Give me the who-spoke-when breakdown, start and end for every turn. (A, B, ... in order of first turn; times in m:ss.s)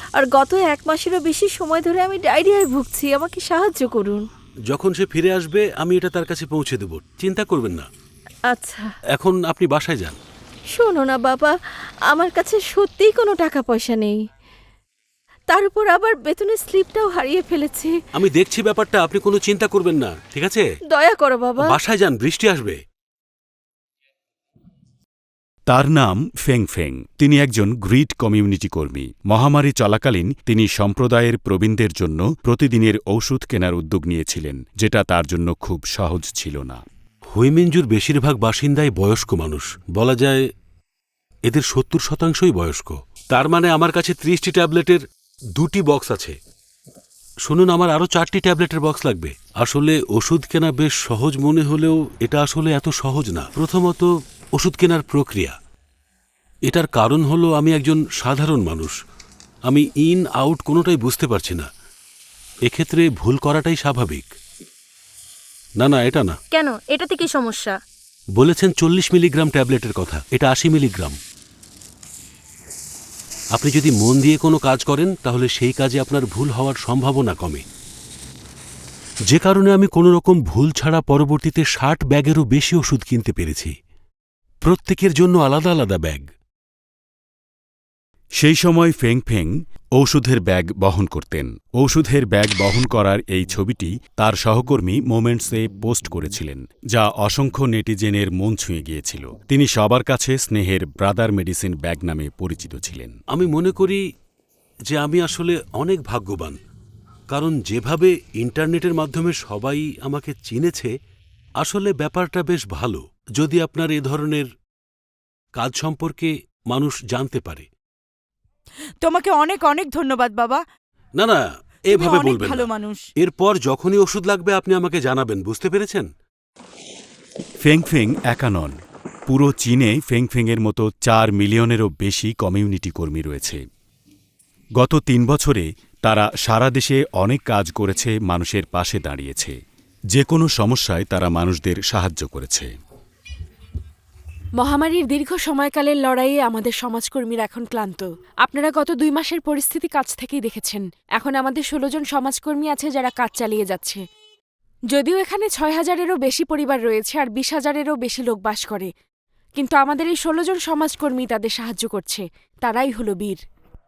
0:00.2-0:04.2 A
0:04.7-0:07.8 B
0:08.5-0:08.9 A
0:09.2-0:10.2 B
0:10.7-0:11.6 A
0:12.1-0:14.2 A
0:15.5-0:18.0 A
0:18.1-0:20.6 B
0:20.9-0:21.6 A
0:21.6-0:22.8 B
0:25.7-0:36.8 C
0:37.3-0:40.4 B
0:41.5-0:45.0 B
0:45.6-0:46.3 B
0:47.5-0:54.0 B
0:54.6-0:55.5 B
0:56.7-0:58.9 B
0:59.7-1:01.7 B
1:02.7-1:04.3 B
1:05.8-1:06.3 B
1:06.5-1:07.8 A
1:08.4-1:11.2 B
1:13.6-1:17.6 B
1:19.3-1:23.7 B
1:24.6-1:26.2 B
1:28.4-1:43.1 C
1:43.3-1:44.0 B
1:44.9-1:46.6 B
1:47.3-1:50.9 B
1:51.6-1:54.4 B
1:55.6-1:57.6 B
1:59.0-2:00.6 D
2:01.2-2:06.1 B
2:01.9-2:03.1 D
2:07.6-2:08.7 C
2:09.3-2:13.6 C
2:14.8-2:19.5 C
2:20.1-2:22.7 C
2:24.6-2:34.0 E
2:34.9-2:38.9 E
2:39.6-2:43.4 E